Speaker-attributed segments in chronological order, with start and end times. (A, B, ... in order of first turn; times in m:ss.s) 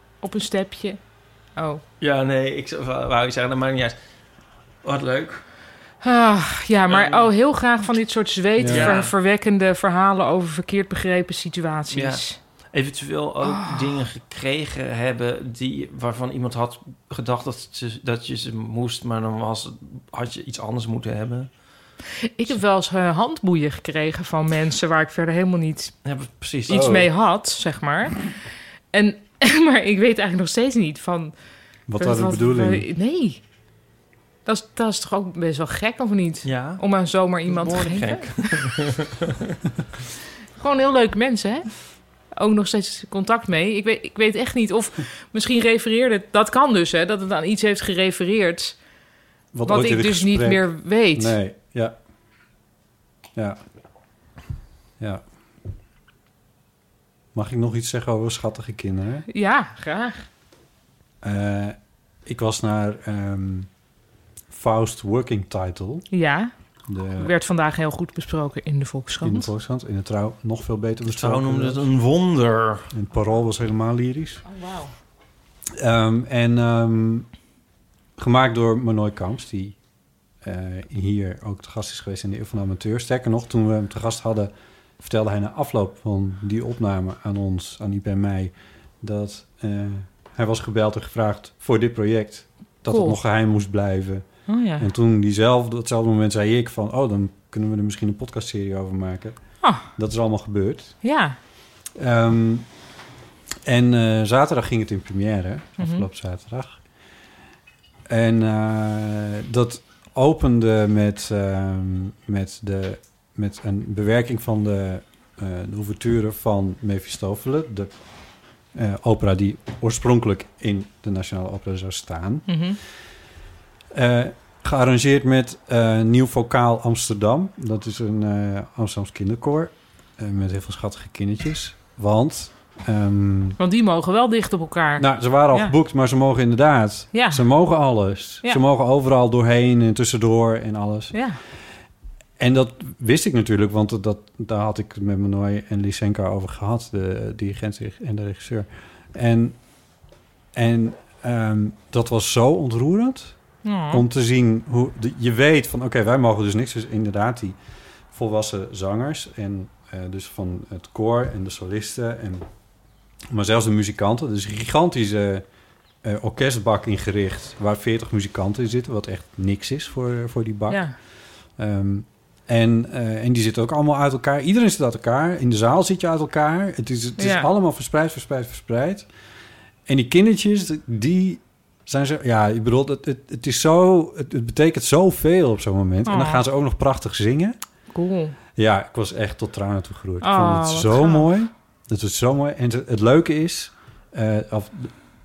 0:00.2-0:01.0 A
0:01.6-0:01.8 A
0:02.0-0:04.0 B
0:04.8-0:05.4 B
0:06.0-0:12.4 A
0:06.9-0:07.3 B
0:08.6-0:09.0 C
0:08.7-0:09.1 B
0:11.9-0:21.6 B
0:13.4-0:14.0 A
0:22.4-0:25.9 A
0:26.0-0:26.8 B
0:26.7-0:28.4 A
0:26.7-0:27.1 C
0:28.9-0:31.3 A
0:31.9-0:32.9 C
0:32.0-0:33.4 A
0:34.4-0:38.8 A
0:36.4-0:36.8 B
0:37.5-0:39.2 B
0:40.6-0:48.8 A
0:49.5-0:52.0 C
0:49.6-0:51.4 A
0:53.4-0:53.6 C
0:55.0-0:55.3 C
0:57.3-0:59.3 C
0:59.3-1:00.3 A
1:01.2-1:03.7 C
1:04.5-1:06.1 C
1:06.1-1:06.5 A
1:06.9-1:07.3 C
1:07.2-1:09.5 A
1:09.2-1:11.9 C
1:11.1-1:12.9 B
1:12.9-1:14.4 C
1:14.4-1:14.9 A
1:15.7-1:17.3 C
1:18.2-1:19.8 C
1:20.4-1:41.0 C
1:32.9-1:33.2 A
1:34.5-1:34.9 A
1:41.0-1:41.4 A
1:42.0-1:42.7 C
1:43.6-1:46.8 C
1:45.8-1:46.1 A
1:48.1-1:57.9 C
1:58.7-2:02.6 C
2:02.5-2:02.8 A
2:03.9-2:13.6 C
2:13.6-2:15.8 A
2:15.0-2:21.2 C
2:17.1-2:17.4 A
2:21.1-2:21.4 A
2:22.4-2:29.6 C
2:30.5-2:33.4 C
2:33.6-2:34.0 A
2:33.9-2:37.6 C
2:38.1-2:42.5 C
2:43.3-2:45.4 C
2:46.0-2:50.9 C
2:50.7-2:51.0 A
2:51.6-2:59.1 C
2:57.2-2:57.5 A
2:59.9-3:07.6 C
3:06.0-3:06.4 A
3:07.9-3:08.4 A
3:08.6-3:15.0 C
3:10.2-3:11.3 A